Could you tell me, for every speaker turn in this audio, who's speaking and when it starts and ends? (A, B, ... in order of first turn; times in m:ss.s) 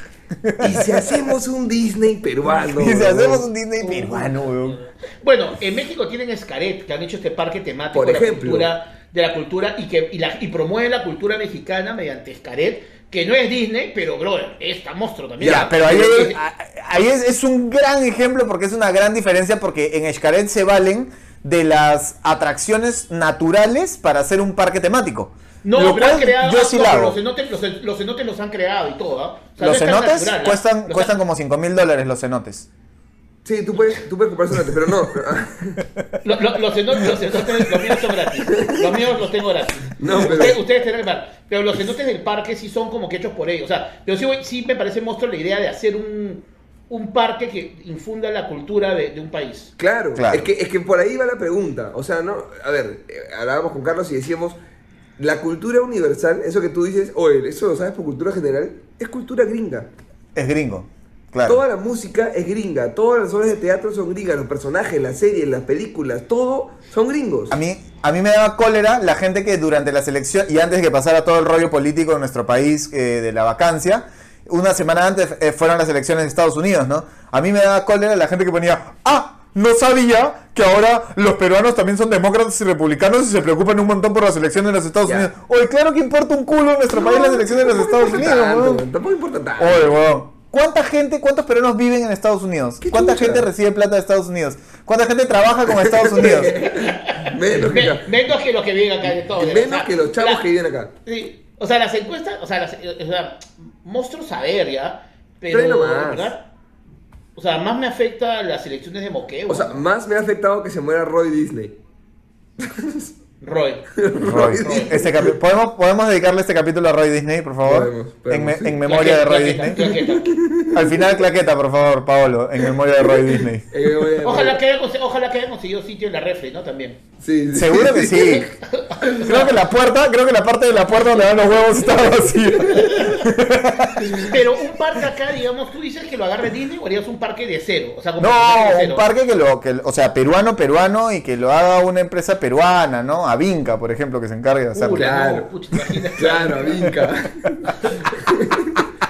0:00.4-0:01.2 A
0:00.6-0:03.5 B
0:02.6-0:04.8 A
0:03.8-0:16.4 C
0:07.9-0:08.7 B
0:15.4-0:27.2 A
0:15.4-0:15.7 B
0:25.6-0:31.1 C
0:29.6-0:32.7 A
0:33.4-0:35.8 B
0:36.2-0:49.7 C
0:38.5-0:38.8 B
0:40.0-0:40.6 B
0:49.8-0:54.6 B
0:50.1-0:50.5 A
0:55.2-0:59.9 B
1:00.3-1:01.6 A
1:01.4-1:07.6 B
1:07.5-1:28.8 A
1:26.9-1:30.0 B
1:29.6-1:36.5 A
1:32.8-1:33.5 B
1:35.7-1:38.2 B
1:36.5-1:40.4 C
1:39.1-1:40.9 B
1:41.0-1:46.5 C
1:45.5-1:46.3 B
1:47.4-1:49.8 C
1:49.5-1:51.8 B
1:52.6-1:53.1 B
1:53.4-1:53.9 C
1:54.0-1:55.3 B
1:54.2-1:59.8 A
1:54.6-1:55.0 C
1:57.6-1:58.8 B
1:58.8-2:00.3 C
1:59.8-2:01.1 B
2:00.7-2:03.7 A
2:03.1-2:04.6 B
2:04.2-2:07.0 C
2:07.2-2:08.5 B
2:07.5-2:08.5 A
2:08.6-2:09.6 C
2:09.1-2:09.3 B
2:09.2-2:14.3 A
2:10.8-2:11.6 C
2:12.7-2:13.2 C
2:14.1-2:19.0 C
2:18.2-2:25.1 A
2:24.7-2:26.9 C
2:24.9-2:25.5 B
2:26.2-2:28.8 B